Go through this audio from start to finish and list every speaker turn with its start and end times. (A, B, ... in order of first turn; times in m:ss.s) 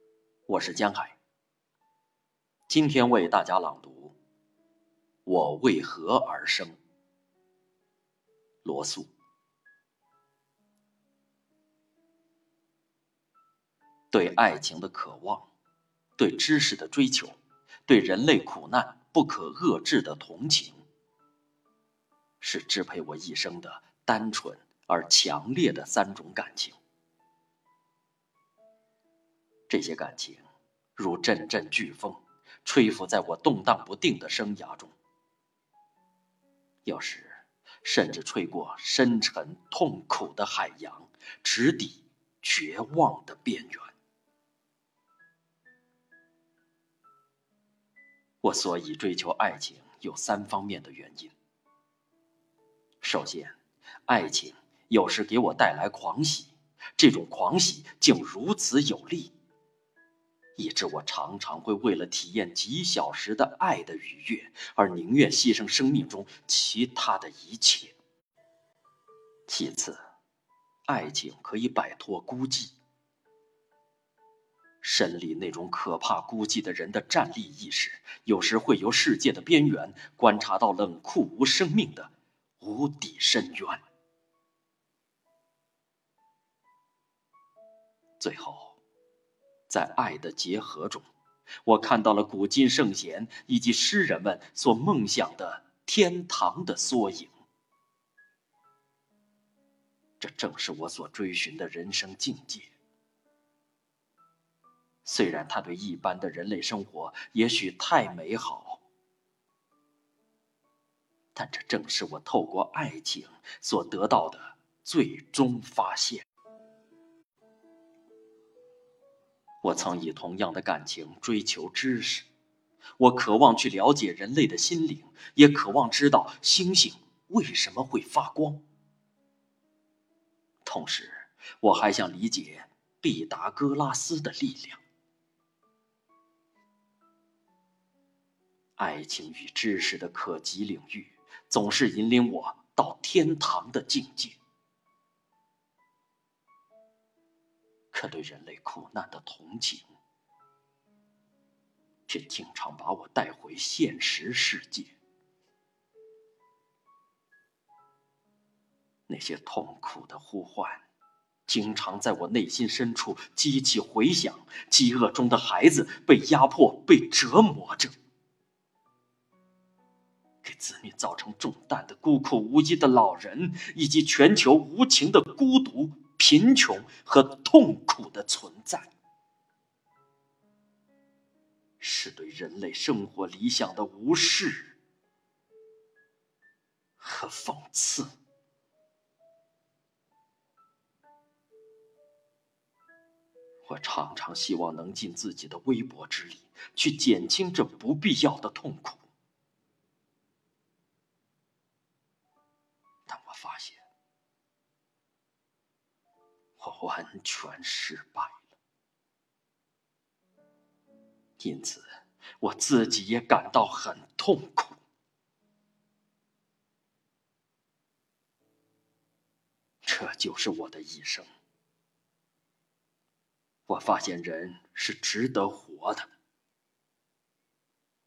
0:00.5-0:01.2 A
0:02.7-0:04.2 A
0:05.3-0:06.8 A
0:08.6-0:09.1 A
0:14.1-0:15.5 A
0:16.2-0:17.4 A
0:17.9-0:20.8 A
0:22.4-0:26.8 A
0:29.7-0:30.4 A
0:31.0-0:35.0 A
0:36.8-0:43.9 A
0:48.4-0:51.3 A
0:53.0-0:59.3 A
1:00.6-1:08.0 A
1:09.5-1:10.0 A
1:10.9-1:12.8 A
1:14.8-1:23.8 A
1:28.2-1:28.8 A
1:29.7-1:31.1 A
1:31.6-1:37.3 A
1:40.2-1:42.7 A
1:45.0-1:48.8 A
1:51.3-1:56.2 A
1:59.6-2:02.3 A
2:03.0-2:08.6 A
2:10.6-2:14.8 A
2:18.8-2:24.4 A
2:27.9-2:29.9 A
2:32.1-2:34.9 A
2:39.1-2:40.8 A
2:41.5-2:48.0 A
2:50.4-2:58.9 A
3:01.8-3:04.8 A
3:07.0-3:08.1 A
3:13.6-3:19.0 A
3:23.1-3:23.8 A
3:26.6-3:28.4 A
3:31.4-3:31.9 A
3:32.4-3:34.8 A
3:39.8-3:41.3 A
3:43.7-3:46.1 A